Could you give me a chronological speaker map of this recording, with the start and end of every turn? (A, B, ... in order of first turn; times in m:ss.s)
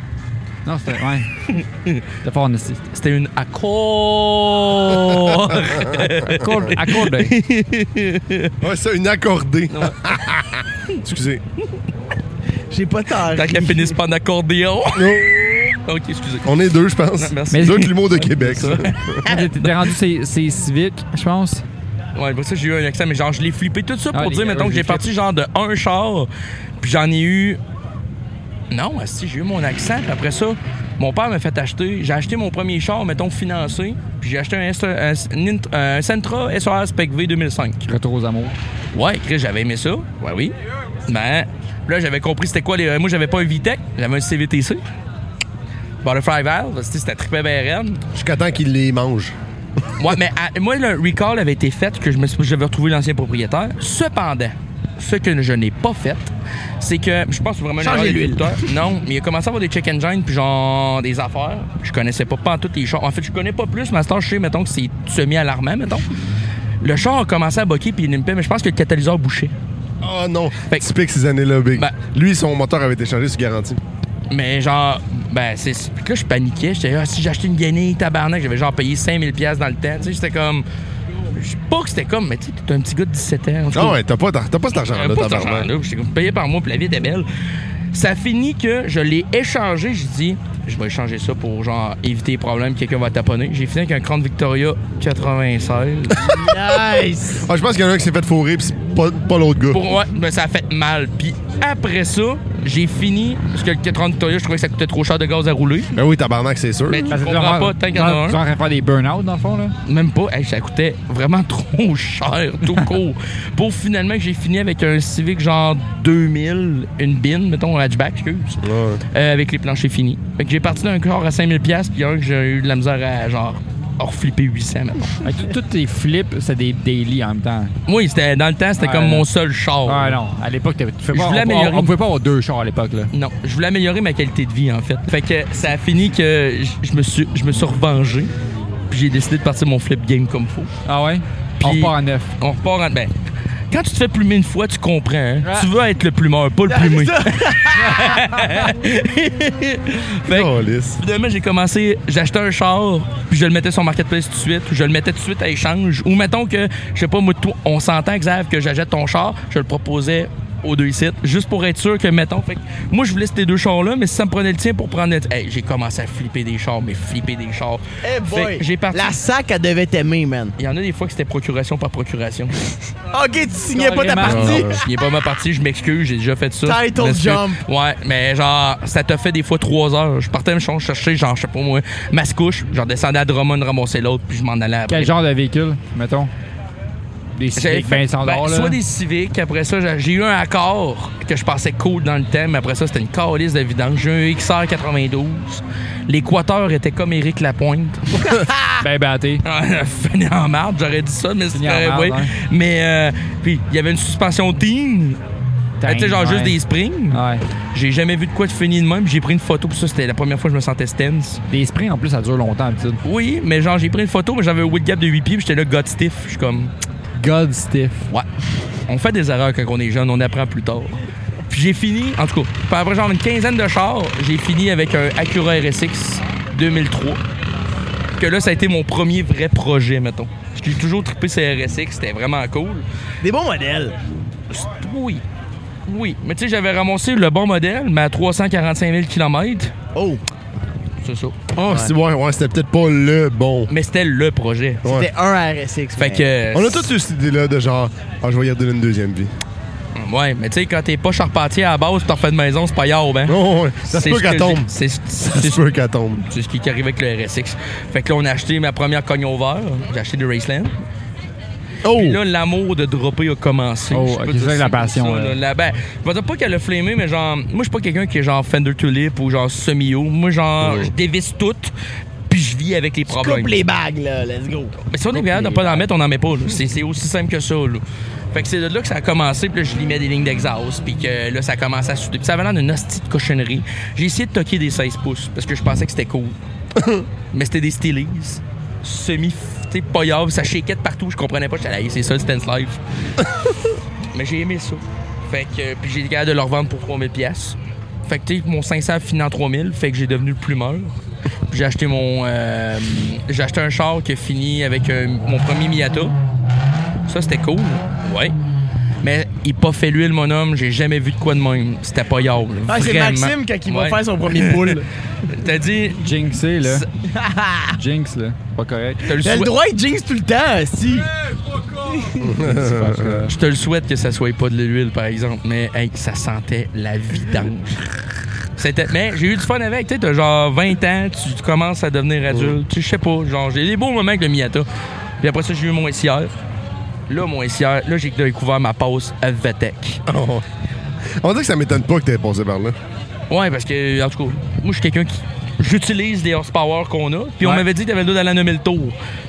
0:00.6-0:01.3 A
0:01.5-0:02.0 B
0:02.2-0:02.8 A
0:02.9-0:08.5 B
0:05.6-0:06.0 C
0:06.3-0:07.3 A
0:08.6-0:11.4 C
0:09.7-0:10.0 B
0:12.7-0:14.0 D
0:13.2-0:16.5 B
0:14.9-0:15.4 C
0:16.4-0:19.2 C
0:17.2-0:19.7 B
0:17.5-0:18.0 A
0:19.2-0:21.6 A
0:22.2-0:27.6 B
0:24.1-0:25.0 A
0:28.7-0:37.8 B
0:37.9-0:38.6 A
0:38.9-0:40.5 B
0:41.1-0:44.8 B
0:46.0-0:48.0 B
0:48.1-0:49.4 C
0:50.0-1:06.1 B
0:57.8-0:58.6 D
1:06.8-1:09.5 B
1:10.0-1:13.8 C
1:14.3-1:20.7 B
1:21.3-1:24.0 B
1:23.7-1:25.7 C
1:24.9-1:27.3 B
1:27.9-1:36.4 B
1:36.2-1:37.5 D
1:37.4-1:39.8 C
1:39.7-1:45.9 B
1:46.0-1:47.2 C
1:46.9-1:48.4 B
1:47.1-1:49.8 A
1:49.9-1:58.6 B
1:58.6-1:59.0 C
1:59.1-2:05.2 B
2:05.2-2:07.8 A
2:07.9-2:10.2 B
2:08.8-2:09.3 A
2:09.8-2:13.1 A
2:11.1-2:11.9 B
2:13.1-2:18.3 B
2:18.9-2:20.7 B
2:20.9-2:22.3 A
2:21.6-2:23.1 B
2:23.7-2:49.2 B
2:25.4-2:25.7 A
2:26.7-2:28.2 D
2:30.3-2:31.0 C
2:48.0-2:50.5 D
2:50.6-2:52.6 B
2:53.1-2:54.9 D
2:53.7-2:54.7 A
2:54.3-2:54.8 C
2:54.7-3:05.1 B
2:56.6-2:57.6 D
3:04.9-3:06.3 A
3:07.4-3:08.8 A
3:07.6-3:18.0 B
3:18.2-3:18.8 D
3:18.8-3:19.4 A
3:19.4-3:25.2 B
3:21.5-3:22.3 A
3:25.8-3:26.6 A
3:25.8-3:27.2 B
3:27.1-3:27.4 A
3:27.7-3:31.4 B
3:31.5-3:33.0 A
3:33.0-3:36.7 B
3:37.2-3:38.1 A
3:38.9-3:41.0 B
3:41.5-3:47.2 B
3:48.2-3:52.8 B
3:53.2-3:53.9 D
3:54.5-3:55.2 B
3:55.9-3:59.7 B
4:00.0-4:00.2 D
4:01.0-4:01.4 B
4:01.6-4:03.7 C
4:01.6-4:01.9 D
4:03.7-4:04.8 B
4:04.8-4:06.2 D
4:06.0-4:06.9 B
4:06.5-4:09.3 C
4:10.0-4:15.6 B
4:13.3-4:14.7 C
4:15.2-4:16.2 C
4:16.3-4:20.8 B
4:21.8-4:22.2 C
4:21.9-4:31.7 B
4:23.9-4:25.4 A
4:30.6-4:30.9 C
4:32.3-4:33.6 B
4:33.1-4:35.8 D
4:34.9-4:46.4 B
4:46.8-4:47.0 C
4:47.3-4:52.8 B
4:54.1-5:01.0 B
5:01.5-5:06.2 B
5:07.1-5:08.4 B
5:09.0-5:16.0 B
5:12.7-5:14.9 D
5:16.0-5:16.9 A
5:17.1-5:17.8 D
5:17.7-5:19.1 A
5:19.1-5:19.5 B
5:19.2-5:21.1 D
5:21.8-5:22.3 D
5:22.2-5:23.3 C
5:22.4-5:23.3 A
5:23.3-5:27.8 B
5:28.6-5:34.7 B
5:32.3-5:32.6 C
5:35.2-5:36.3 B
5:37.1-5:40.0 B
5:40.1-5:40.4 C
5:41.2-5:42.8 C
5:43.3-5:49.0 B